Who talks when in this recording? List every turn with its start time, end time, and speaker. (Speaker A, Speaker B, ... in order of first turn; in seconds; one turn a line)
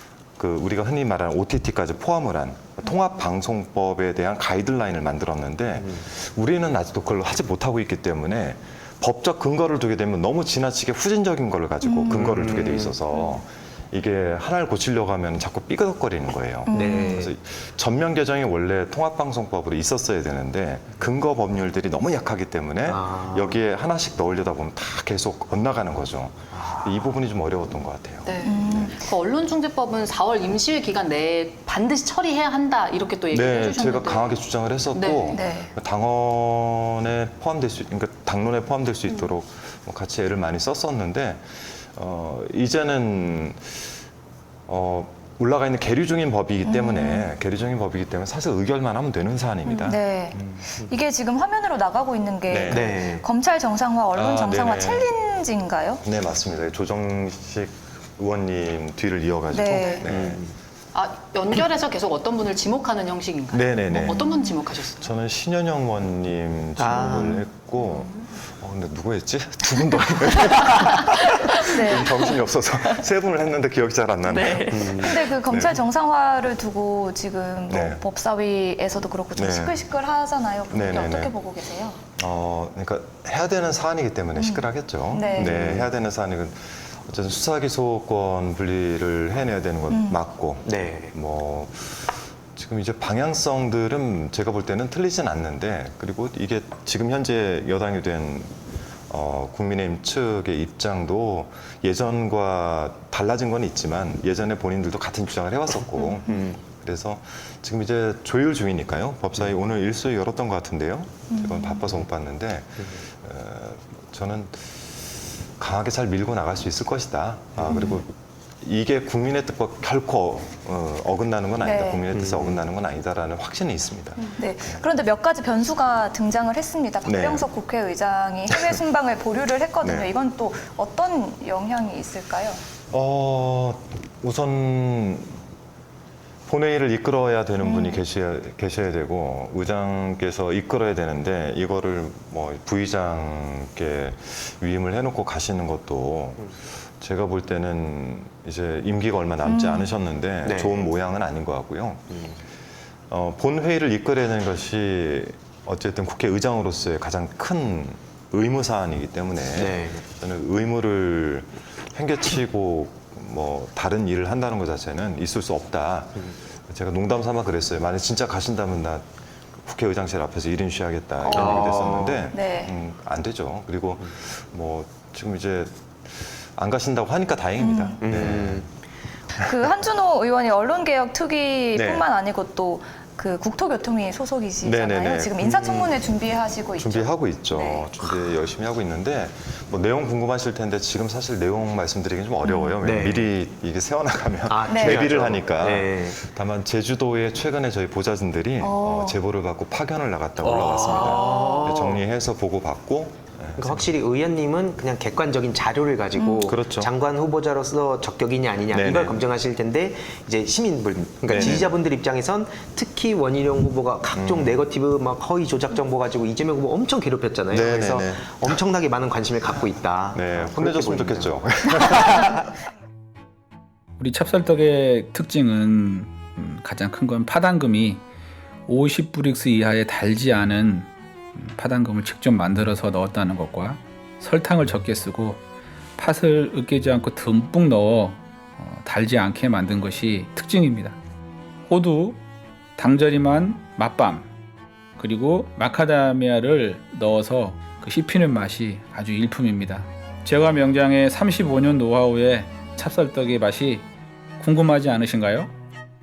Speaker A: 0.4-28.9
Speaker B: 12.1-13.0
Speaker C: 16.7-17.2
Speaker B: 16.7-17.3
Speaker B: 22.8-23.6
Speaker B: 26.5-27.1
Speaker D: 28.3-34.4
Speaker C: 28.4-29.3
Speaker C: 32.9-34.0
Speaker A: 33.3-43.9
Speaker D: 35.0-35.6
Speaker C: 35.0-35.7
Speaker A: 44.7-50.6
Speaker C: 47.0-47.2
Speaker C: 49.7-56.0
Speaker A: 52.5-53.0
Speaker B: 52.7-53.2
Speaker A: 54.1-55.1
Speaker A: 56.0-60.4
Speaker C: 59.5-60.0
Speaker B: 60.0-60.5
Speaker D: 61.0-63.4
Speaker C: 61.0-64.9
Speaker A: 63.5-75.9
Speaker D: 63.9-65.0
Speaker B: 66.8-67.5
Speaker C: 71.6-72.2
Speaker B: 74.7-75.2
Speaker C: 74.8-82.0
Speaker A: 77.7-78.0
Speaker A: 79.3-79.8
Speaker A: 80.7-81.3
Speaker A: 82.2-98.5
Speaker C: 85.1-85.5
Speaker B: 85.3-85.9
Speaker B: 90.7-91.1
Speaker A: 99.1-118.1
Speaker B: 106.2-106.6
Speaker B: 117.6-117.9
Speaker A: 118.6-124.8
Speaker C: 121.6-122.0
Speaker B: 122.1-122.6
Speaker C: 124.4-132.6
Speaker A: 127.0-127.5
Speaker A: 128.5-128.8
Speaker A: 129.8-130.1
Speaker A: 132.9-135.3
Speaker A: 136.5-152.1
Speaker C: 137.6-138.0
Speaker C: 149.4-149.9
Speaker B: 150.4-150.8
Speaker B: 152.1-152.4
Speaker A: 153.1-169.1
Speaker B: 159.6-160.0
Speaker A: 169.6-178.7
Speaker B: 171.3-172.3
Speaker C: 171.4-171.7
Speaker C: 172.3-172.7
Speaker B: 178.0-178.7
Speaker C: 179.4-187.9
Speaker A: 181.7-182.1
Speaker A: 184.6-185.4
Speaker B: 185.4-185.9
Speaker A: 186.8-203.9
Speaker C: 192.4-192.8
Speaker B: 192.8-193.3
Speaker B: 194.5-196.2
Speaker C: 194.7-195.1
Speaker C: 198.6-199.2
Speaker B: 200.4-202.0
Speaker C: 201.0-201.6
Speaker B: 203.6-221.3
Speaker C: 206.2-206.5
Speaker A: 206.4-206.9
Speaker A: 208.7-209.2
Speaker A: 211.3-211.7
Speaker A: 214.1-214.6
Speaker A: 217.5-218.6
Speaker A: 220.1-222.4
Speaker B: 222.0-222.4
Speaker E: 224.0-228.0
Speaker E: 228.7-235.4
Speaker E: 236.0-241.0
Speaker E: 241.7-242.2
Speaker E: 242.8-244.3
Speaker E: 245.0-253.9
Speaker E: 254.4-255.5